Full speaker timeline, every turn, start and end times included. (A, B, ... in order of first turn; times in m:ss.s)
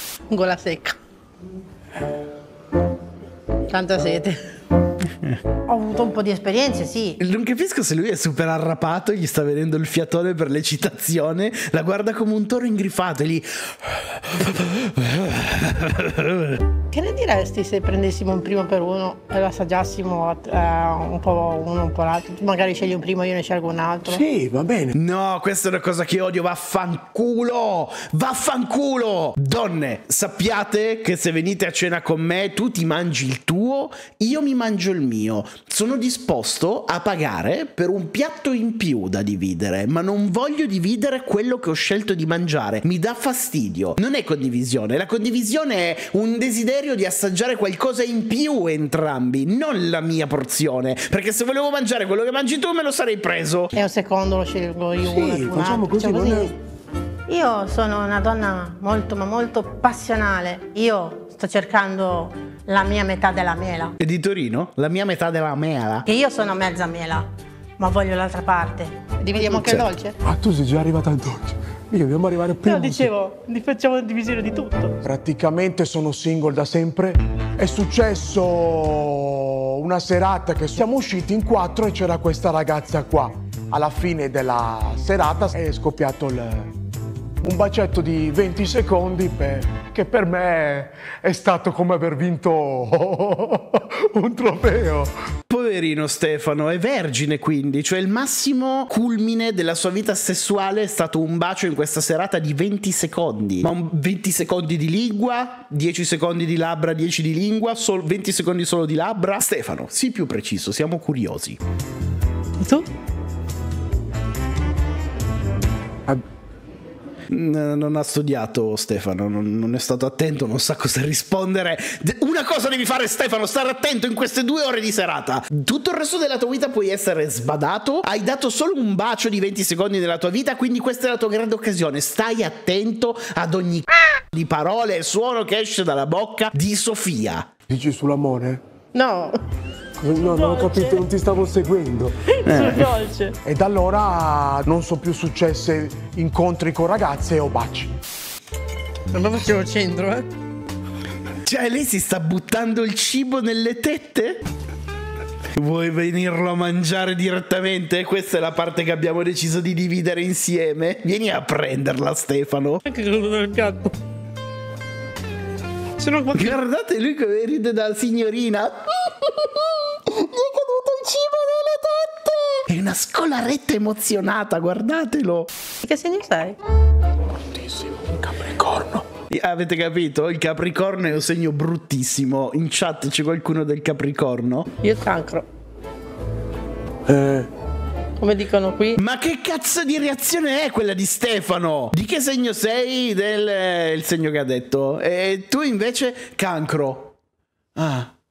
0:00.3-0:01.0 A
0:03.7-0:04.4 A
0:05.7-0:07.2 A
0:07.2-0:16.6 B
0:16.9-0:24.2 A
0:24.0-0:24.9 C
0:24.9-0:53.7 B
0:53.7-0:56.6 A
0:55.0-0:56.6 C
0:57.3-1:04.0 A
1:04.0-1:06.1 B
1:06.1-1:10.2 A
1:09.4-1:13.1 C
1:12.6-1:15.0 A
1:15.0-1:26.7 C
1:27.4-1:35.1 C
1:35.5-1:51.6 B
1:52.6-1:52.9 A
1:57.3-2:17.5 B
2:17.7-2:18.6 C
2:18.9-2:19.4 A
2:20.0-2:22.2 C
2:20.2-2:21.1 A
2:22.3-2:23.4 A
2:22.4-2:22.9 B
2:23.4-2:28.0 C
2:29.1-2:30.3 A
2:31.4-2:34.4 B
2:35.6-2:42.8 B
2:42.8-2:44.0 A
2:46.0-2:46.6 A
2:46.3-2:51.2 B
2:50.8-2:52.2 A
2:52.7-2:55.5 B
2:55.8-2:56.6 A
2:57.6-2:59.0 C
2:59.3-3:04.7 B
3:04.8-3:05.4 A
3:07.1-3:07.5 C
3:08.2-3:09.0 A
3:09.0-3:17.1 B
3:17.8-3:18.1 B